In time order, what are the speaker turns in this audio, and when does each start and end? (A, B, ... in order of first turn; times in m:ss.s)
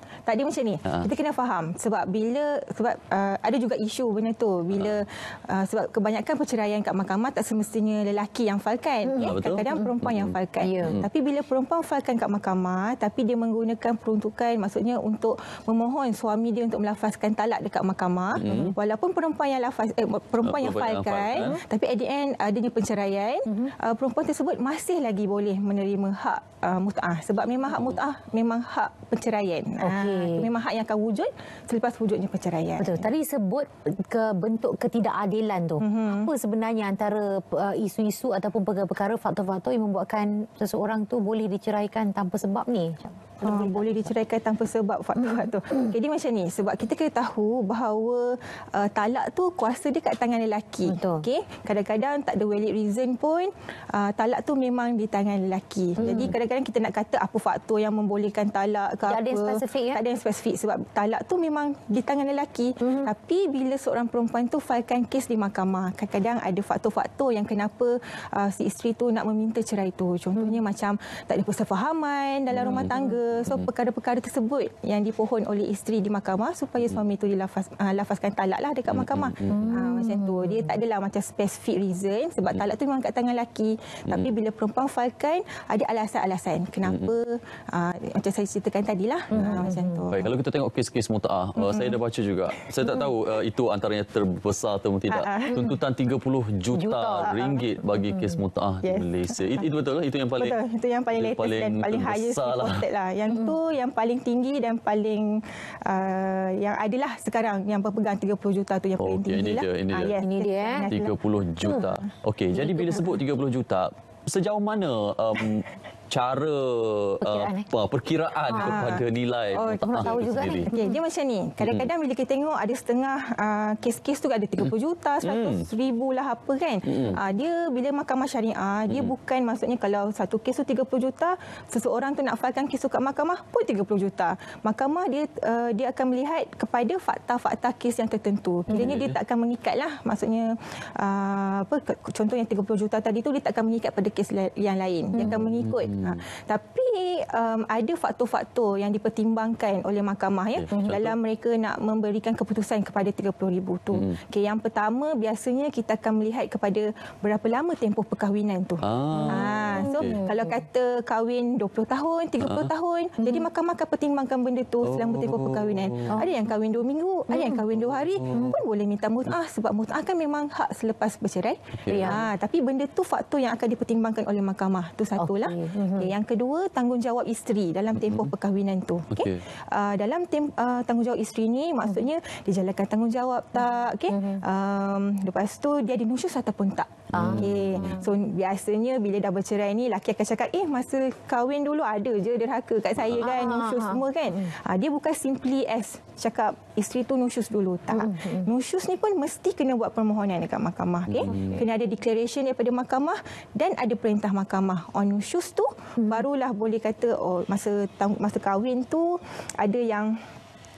0:00.2-0:33.1 A
0:04.7-0:05.0 B
0:09.0-0:09.9 C
0:09.2-0:11.0 B
0:10.6-0:11.0 C
0:18.4-0:18.8 B
0:18.4-0:18.7 C
0:20.4-0:21.6 B
0:29.8-0:30.5 C
0:32.8-0:44.1 C
0:35.8-0:36.3 A
0:43.4-1:30.3 A
0:50.8-0:51.2 C
0:56.0-0:56.3 C
0:59.1-1:00.0 C
1:02.8-1:03.1 C
1:12.5-1:12.9 B
1:12.6-1:13.1 C
1:18.9-1:19.7 B
1:19.5-1:20.8 C
1:26.8-1:27.1 B
1:29.3-1:30.1 C
1:29.3-1:40.6 B
1:31.6-1:32.0 A
1:35.1-1:35.6 A
1:36.7-1:38.4 C
1:38.8-1:39.4 A
1:40.4-1:51.1 A
1:41.1-1:42.8 B
1:43.3-1:43.6 C
1:49.0-1:50.2 B
1:50.2-1:50.9 C
1:50.9-2:00.7 B
1:51.6-1:51.9 A
1:52.6-1:53.0 C
1:57.2-1:57.7 C
1:58.4-1:58.9 C
1:58.6-3:30.2 A
1:59.9-2:01.0 C
2:01.6-2:01.9 B
2:05.2-2:05.7 B
2:06.9-2:07.2 B
2:18.7-2:19.2 B
2:25.2-2:26.2 B
2:30.6-2:31.2 B
2:33.9-2:34.2 B
2:38.8-2:40.2 B
2:39.2-2:40.6 C
2:42.4-2:42.7 B
2:43.2-2:43.5 C
2:44.8-2:45.9 B
2:47.3-2:47.6 C
2:48.3-2:48.6 C
2:51.8-2:52.2 B
2:51.9-2:52.2 C
2:55.2-2:56.1 C
2:58.0-2:58.3 B
2:59.1-2:59.4 B
3:04.1-3:04.4 C
3:07.1-3:08.0 B
3:07.2-3:08.0 C
3:13.2-3:14.5 C
3:17.9-3:18.5 C
3:21.1-3:21.6 B
3:21.3-3:21.6 C
3:26.0-3:26.2 C